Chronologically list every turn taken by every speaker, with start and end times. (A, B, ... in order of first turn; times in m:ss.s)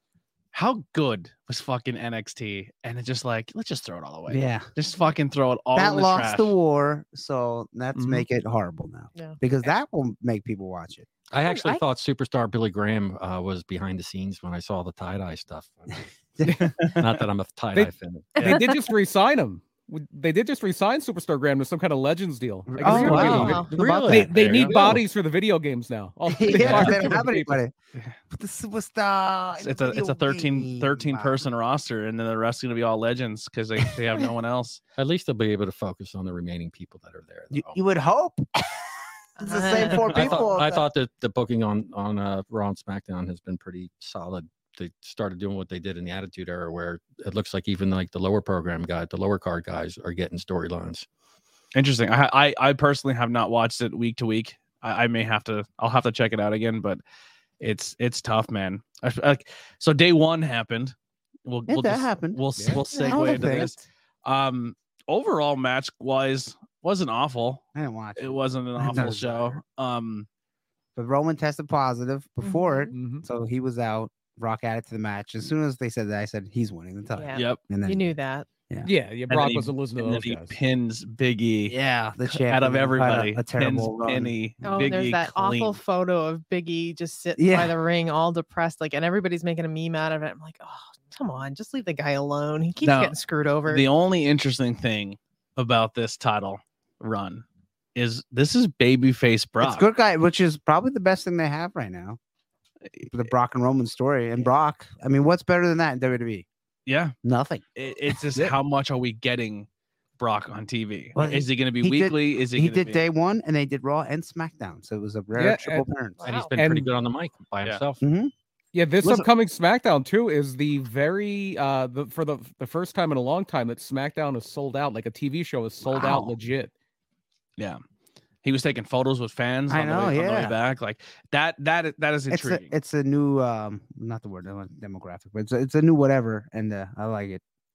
0:00.5-0:06.6 A
0:04.3-0:04.7 B
0:05.7-0:11.1 B
0:07.9-0:08.3 C
0:09.2-0:09.4 D
0:11.3-0:16.0 E
0:11.5-0:11.8 D
0:16.4-0:16.7 B
0:16.9-0:18.6 E
0:17.7-0:27.6 C
0:22.7-0:24.7 B
0:22.8-0:25.0 E
0:23.3-0:23.7 D
0:26.3-0:27.7 B
0:26.6-0:26.9 A
0:28.3-0:31.4 B
0:29.6-0:34.8 A
0:35.0-0:37.8 E
0:37.5-0:40.8 B
0:39.4-0:40.3 D
0:39.8-0:51.1 E
0:51.8-0:57.0 A
0:57.6-1:01.0 A
1:01.5-1:07.6 A
1:01.7-1:03.7 B
1:02.6-1:02.8 C
1:02.9-1:03.7 D
1:07.8-1:09.6 B
1:08.2-1:10.3 A
1:11.0-1:18.1 B
1:12.4-1:12.9 D
1:12.9-1:13.2 C
1:17.2-1:18.5 D
1:17.3-1:17.6 A
1:18.8-1:20.6 C
1:19.3-1:25.8 A
1:21.7-1:25.0 B
1:24.6-1:33.9 D
1:27.4-1:27.8 B
1:32.8-1:33.1 A
1:33.7-1:37.4 A
1:38.0-1:39.9 A
1:39.6-1:42.2 B
1:43.1-1:46.5 B
1:46.9-1:47.2 A
1:47.2-1:47.6 B
1:47.8-1:49.7 A
1:50.2-1:53.0 A
1:51.2-1:56.3 B
1:55.4-1:55.9 C
1:56.2-1:56.5 D
1:56.2-1:58.0 E
1:56.6-1:56.9 C
1:58.0-1:58.3 B
1:58.7-2:06.7 C
2:05.8-2:06.3 B
2:08.4-2:12.7 A
2:09.7-2:10.6 B
2:12.3-2:17.4 B